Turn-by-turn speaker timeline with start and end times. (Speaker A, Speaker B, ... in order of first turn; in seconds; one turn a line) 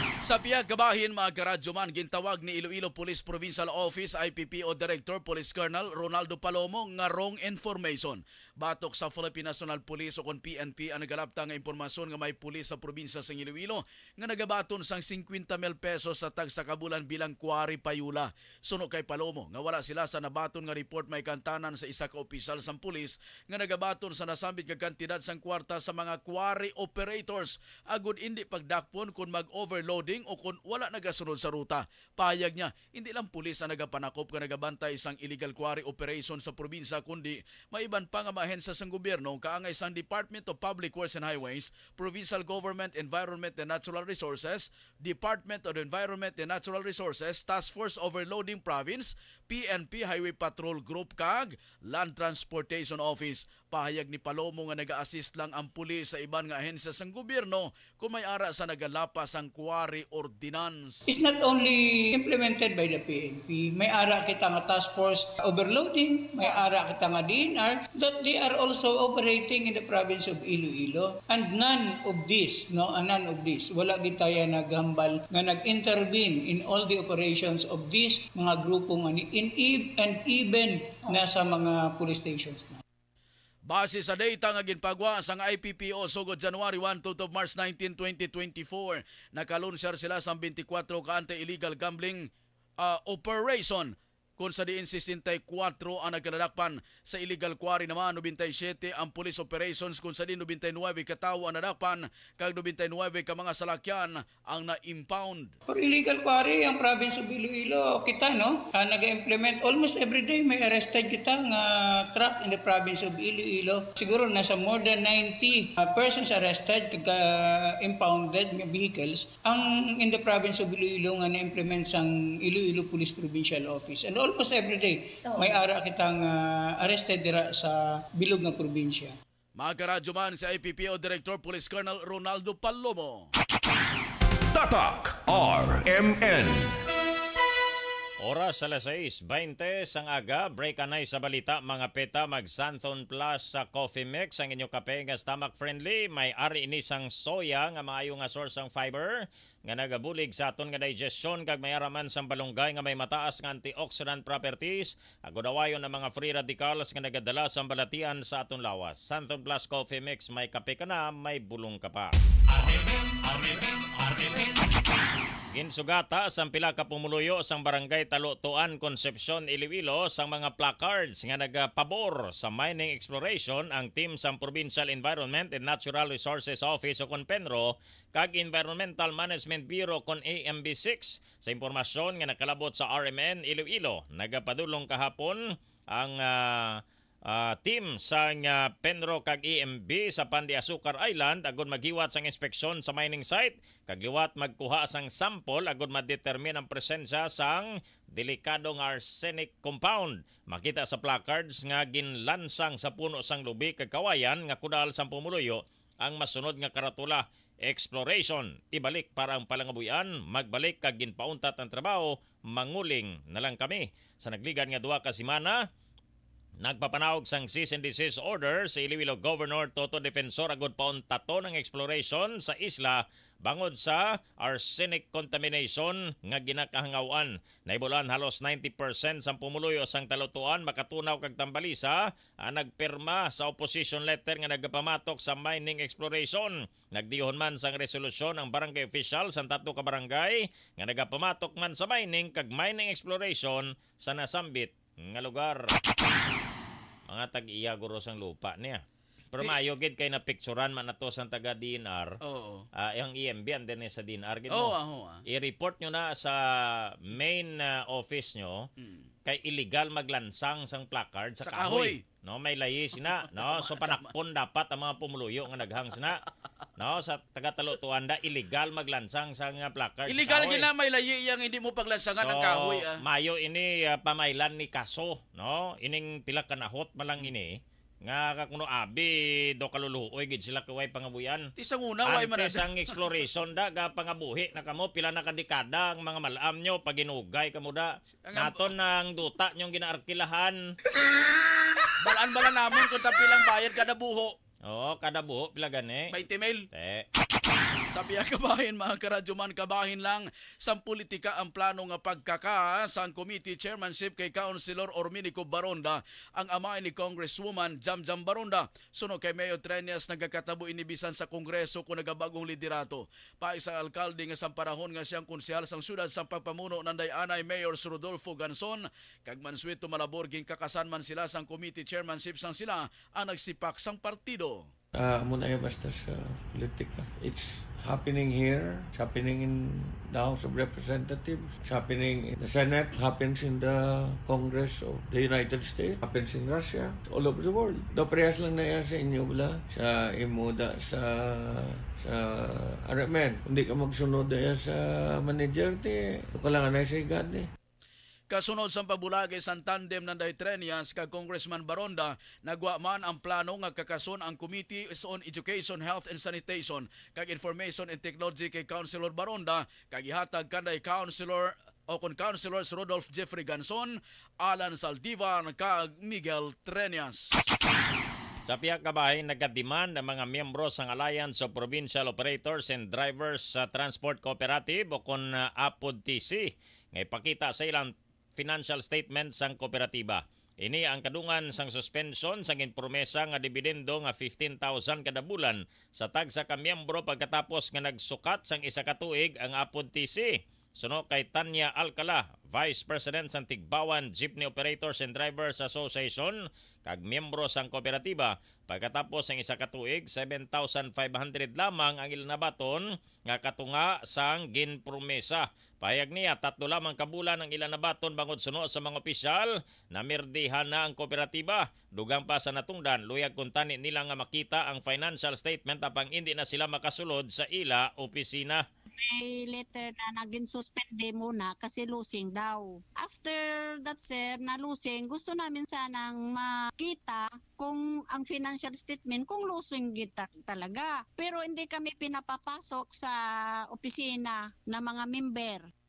Speaker A: 0.2-61.0
Speaker B: 61.1-82.8
Speaker A: 83.7-105.5
Speaker B: 105.7-129.1
Speaker A: 129.6-133.3
Speaker C: 134.5-136.8
Speaker D: 138.2-162.1
Speaker D: 165.5-185.4
Speaker D: 185.9-215.6
Speaker D: 216.6-245.7
Speaker D: 247.1-248.8
Speaker D: 249.3-252.2
Speaker A: 252.2-252.7
Speaker D: 252.8-254.7
Speaker A: 254.5-255.2
Speaker D: 255.3-258.7
Speaker D: 259.2-266.2
Speaker A: 261.4-262.0
Speaker A: 263.4-264.1
Speaker D: 266.8-270.6
Speaker A: 270.1-273.0
Speaker D: 272.2-281.5
Speaker A: 281.6-282.7
Speaker D: 282.1-290.6
Speaker A: 288.2-288.6
Speaker A: 292.0-294.3
Speaker D: 294.7-296.1
Speaker A: 296.1-296.6
Speaker D: 296.7-297.1
Speaker A: 297.9-324.7
Speaker E: 324.9-347.5
Speaker A: 348.3-367.3
Speaker D: 368.5-418.6
Speaker F: 418.9-433.1
Speaker F: 433.7-435.6